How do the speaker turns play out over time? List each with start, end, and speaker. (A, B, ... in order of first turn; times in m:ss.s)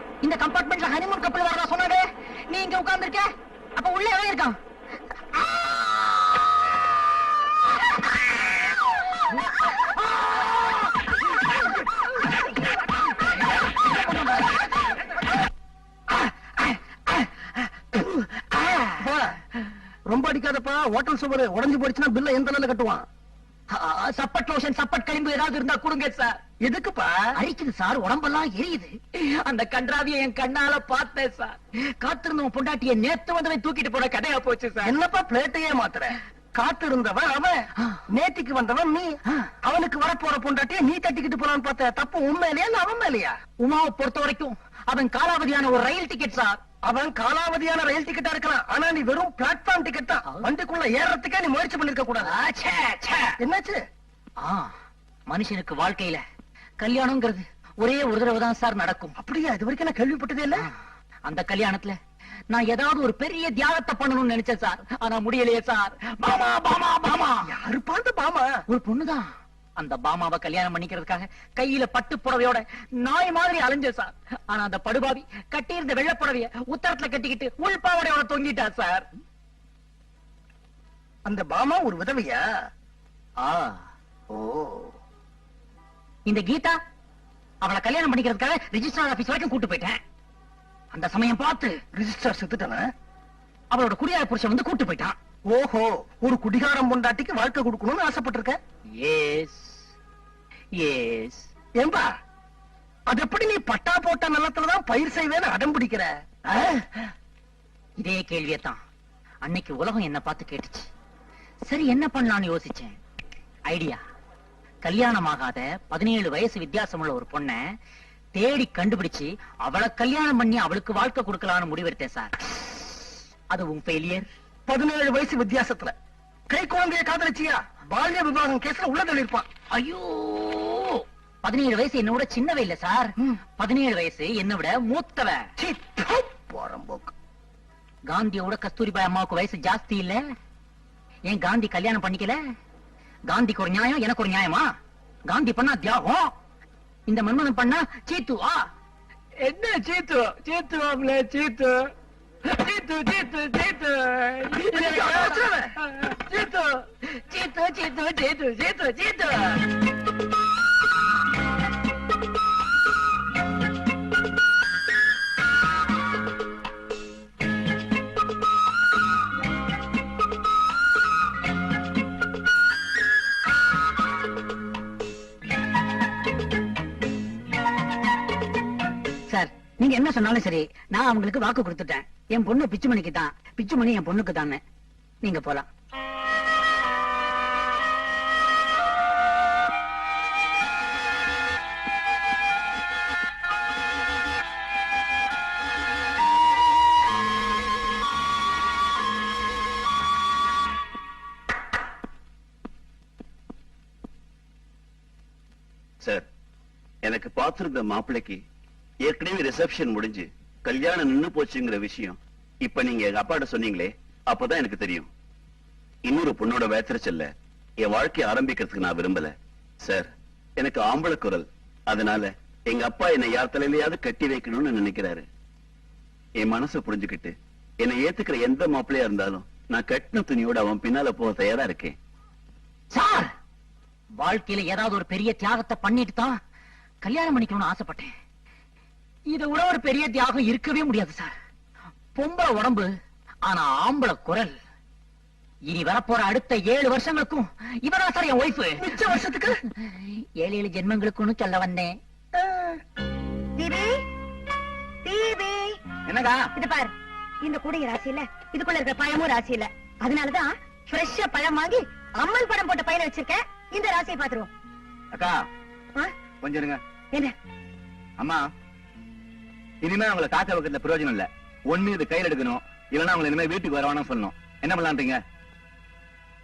0:00.2-0:04.6 A
0:16.1-0:19.0 A
0:19.0-0:19.3 B
0:20.1-0:23.0 B
0:23.7-0:26.4 A
0:26.6-0:27.3 B
0:27.4-0:34.9 A
0:34.8-0:37.6 B
0:38.1-0:39.1 B
0:39.6-0:43.3 B
0:43.6-0:46.6 A
0:46.8-0:52.3 B
0:52.2-0:53.3 A
0:53.4-0:53.8 B
0:54.4-0:54.7 A
0:55.3-0:56.2 A
0:56.8-0:59.1 A
0:59.2-1:00.6 B
1:01.2-1:02.0 A
1:02.5-1:07.5 A
1:07.4-1:08.5 B
1:08.7-1:19.0 A
1:21.2-1:22.4 B
1:23.4-1:23.8 A
1:24.3-1:24.9 B
1:26.2-1:26.8 A
1:27.6-1:30.0 A
1:30.9-1:31.8 A
1:31.9-1:32.9 B
1:33.7-1:35.2 A
1:35.5-1:38.6 B
1:39.0-1:39.8 A
1:40.8-1:41.5 A
1:41.8-1:42.0 B
1:43.1-1:46.1 B
1:48.0-1:48.8 A
1:49.4-1:50.9 A
1:51.7-1:53.0 A
1:53.7-1:54.0 A
1:54.8-1:57.6 A
1:58.3-2:02.8 A
2:03.5-2:04.3 A
2:04.7-2:05.9 B
2:06.5-2:09.4 B
2:09.7-2:15.4 A
2:15.6-2:17.1 B
2:18.1-2:20.2 A
2:21.3-2:22.4 A
2:23.3-2:24.7 A
2:25.3-2:26.3 A
2:27.1-2:28.6 A
2:34.6-2:35.7 B
2:37.3-2:38.3 A
2:59.3-3:04.6 A
3:05.2-3:05.7 A
3:27.0-3:28.4 C
3:29.0-3:35.1 C
3:36.0-3:45.2 C
3:46.4-3:52.0 C
3:52.9-3:53.3 A
3:54.2-3:56.4 A
3:57.0-3:58.1 A
3:59.3-4:01.3 A
4:02.2-4:02.9 A
4:03.4-4:04.5 A
4:05.7-4:09.0 A
4:08.8-4:09.5 B
4:09.8-4:12.0 A
4:12.4-4:12.8 B
4:13.6-4:13.9 D
4:15.0-4:15.7 D
4:16.0-4:16.4 E
4:16.6-4:16.9 D
4:17.4-4:24.5 D
4:26.4-4:26.8 E
4:28.2-4:28.4 E
4:29.8-4:35.2 E